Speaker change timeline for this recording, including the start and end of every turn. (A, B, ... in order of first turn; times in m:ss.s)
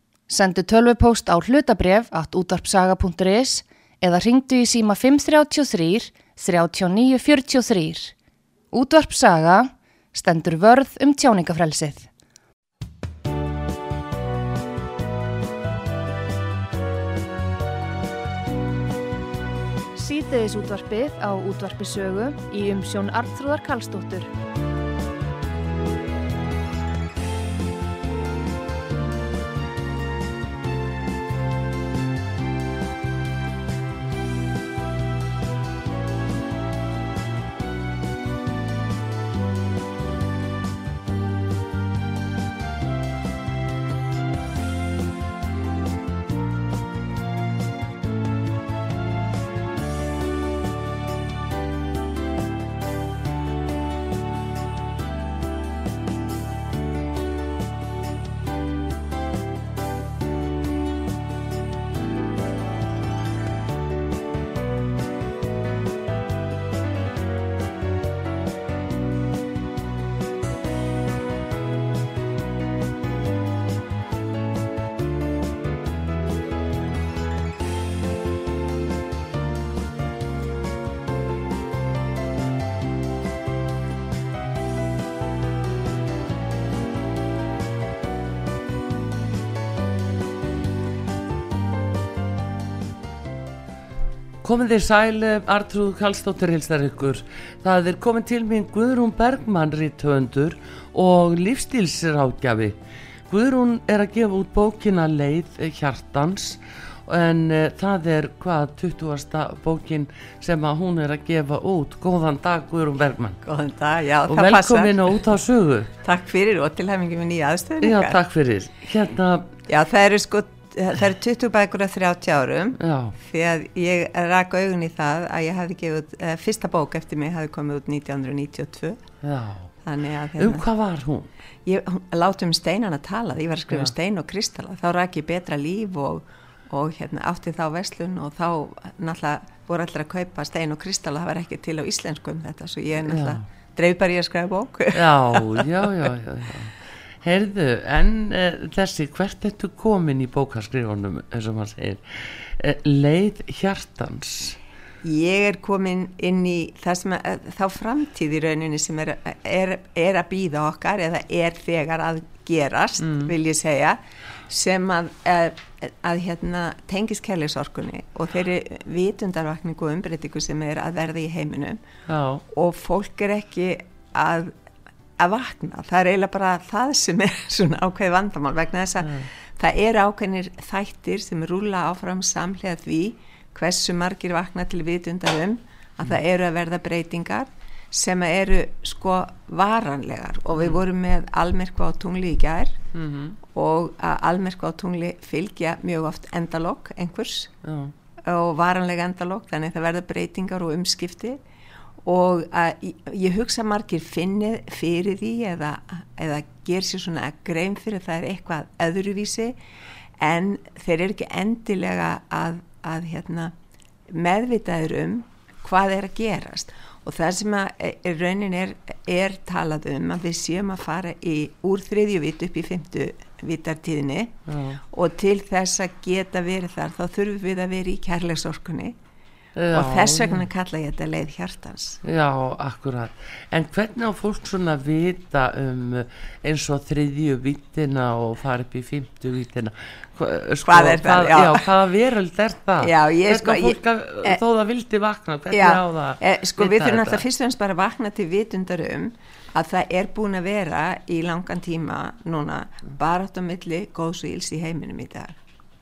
0:00.3-0:08.1 A
0:08.7-0:12.1 A
0:19.9-0:24.3 A
1:34.4-1:42.8 B
1:43.3-1:53.4 B
1:53.4-1:55.0 C
1:54.3-1:55.9 B
1:56.0-1:58.2 C
1:57.8-1:59.5 B
1:59.7-2:09.0 C
2:02.8-2:03.2 B
2:09.2-2:09.7 B
2:09.8-2:10.6 C
2:10.4-2:11.3 B
2:11.6-2:25.7 C
2:23.0-2:23.4 B
2:24.9-2:34.6 B
2:35.0-2:51.8 C
2:43.0-2:43.3 B
2:52.1-2:52.4 B
2:52.5-2:54.5 C
2:55.2-3:12.8 C
2:59.0-2:59.3 B
3:12.9-3:13.4 B
3:13.5-3:17.5 C
3:17.6-3:17.9 B
3:18.2-3:21.4 C
3:22.0-3:29.6 C
3:30.2-3:33.5 C
3:34.1-3:44.3 C
3:44.5-3:44.8 B
3:44.9-3:49.0 C
3:49.6-3:50.4 B
3:49.7-3:52.0 C
3:52.0-4:07.2 B
4:00.6-4:01.7 C
4:02.8-4:04.4 C
4:05.5-4:15.4 C